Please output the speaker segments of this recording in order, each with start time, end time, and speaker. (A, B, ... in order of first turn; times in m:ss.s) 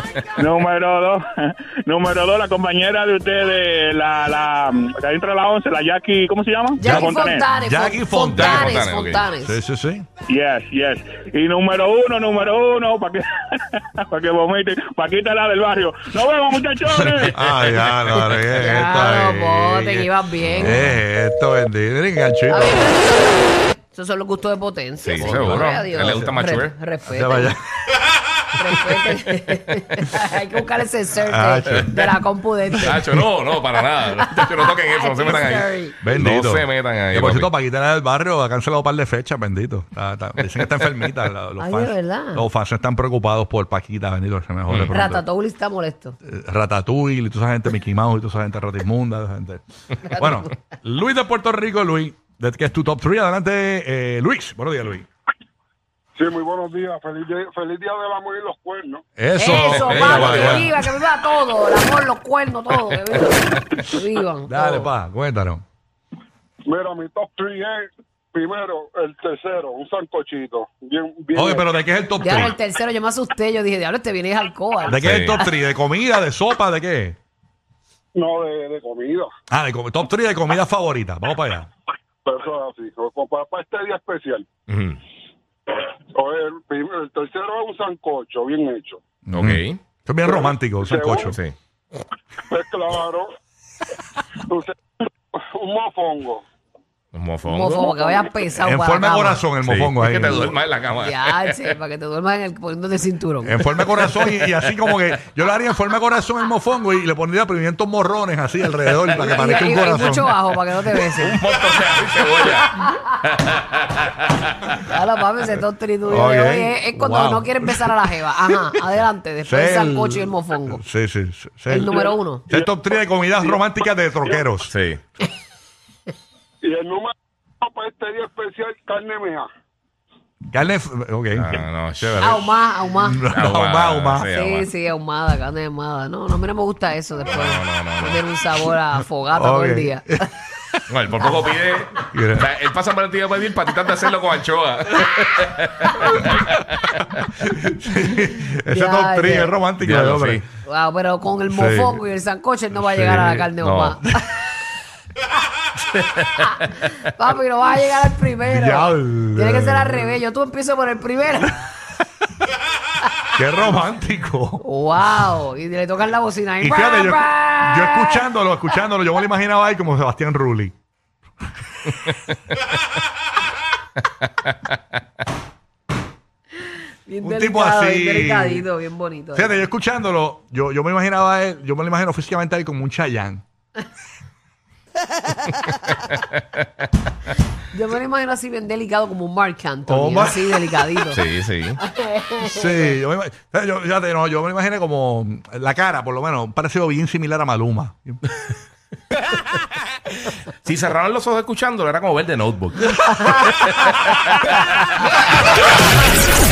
0:00.4-0:07.4 A
0:06.8-0:09.6 B
0:06.8-0:10.1 C
0:08.4-0:09.2 D
0:10.3-0:17.4 A
0:17.0-0:20.1 C
0:17.8-0:18.2 D
0:18.5-0:20.8 B
0:20.4-0:21.0 D
0:20.6-0:23.0 C
0:22.5-0:27.5 B
0:25.0-0:26.7 D
0:25.2-0:26.4 C
0:27.1-0:27.6 C
0:28.6-0:33.0 B
0:31.3-0:32.1 C
0:32.7-0:33.2 C
0:32.8-0:37.5 D
0:34.1-0:36.0 B
0:36.0-0:45.2 C
0:41.6-0:42.4 B
0:44.7-0:44.9 D
0:44.9-0:46.2 B
0:46.3-0:55.1 C
0:56.2-0:59.0 E
0:59.2-1:00.9 C
0:59.4-1:04.9 B
0:59.5-1:00.7 D
1:04.5-1:05.6 C
1:06.6-1:11.7 E
1:11.4-1:12.6 C
1:12.2-1:15.5 B
1:14.9-1:17.2 C
1:15.0-1:15.4 D
1:18.2-1:19.3 E
1:19.5-1:21.7 C
1:22.2-1:24.5 E
1:24.7-1:25.0 D
1:26.1-1:29.0 E
1:29.3-1:31.4 C
1:29.3-1:29.8 D
1:30.2-1:31.4 E
1:31.1-1:31.6 D
1:32.5-1:33.3 E
1:34.5-1:34.8 E
1:35.4-1:36.4 E
1:37.1-1:37.9 D
1:37.4-1:39.4 B
1:38.6-1:40.6 C
1:39.6-1:41.6 D
1:40.9-1:43.6 B
1:43.4-1:50.3 C
1:44.1-1:44.6 D
1:49.2-1:51.4 B
1:51.2-1:54.7 D
1:54.8-2:00.8 B
1:56.1-1:58.5 C
1:59.4-2:04.7 C
2:01.7-2:02.4 B
2:01.9-2:02.7 E
2:03.4-2:03.7 E
2:04.2-2:04.5 E
2:04.7-2:05.0 D
2:06.6-2:09.5 E
2:10.5-2:11.6 C
2:11.4-2:12.5 D
2:12.2-2:13.2 B
2:13.0-2:14.3 C
2:13.3-2:14.7 D
2:14.3-2:20.3 B
2:17.3-2:18.2 D
2:19.3-2:20.2 C
2:20.9-2:27.2 D
2:22.1-2:22.5 C
2:27.3-2:30.4 C
2:28.7-2:29.5 B
2:29.8-2:30.4 D
2:30.6-2:34.4 B
2:31.5-2:32.0 C
2:32.7-2:33.5 C
2:33.6-2:34.0 D
2:36.0-2:36.6 D
2:36.5-2:41.6 B
2:38.5-2:40.2 C
2:43.4-2:44.6 C
2:44.6-2:48.2 B
2:46.6-2:50.7 C
2:54.2-2:54.8 D
2:57.1-2:59.6 B
2:57.2-2:58.7 C
2:59.4-3:03.4 C
3:05.5-3:06.7 D
3:07.7-3:11.2 B
3:09.9-3:10.7 C
3:11.1-3:11.8 D
3:11.8-3:13.0 B
3:12.4-3:18.2 C
3:20.6-3:24.7 D
3:23.1-3:23.4 B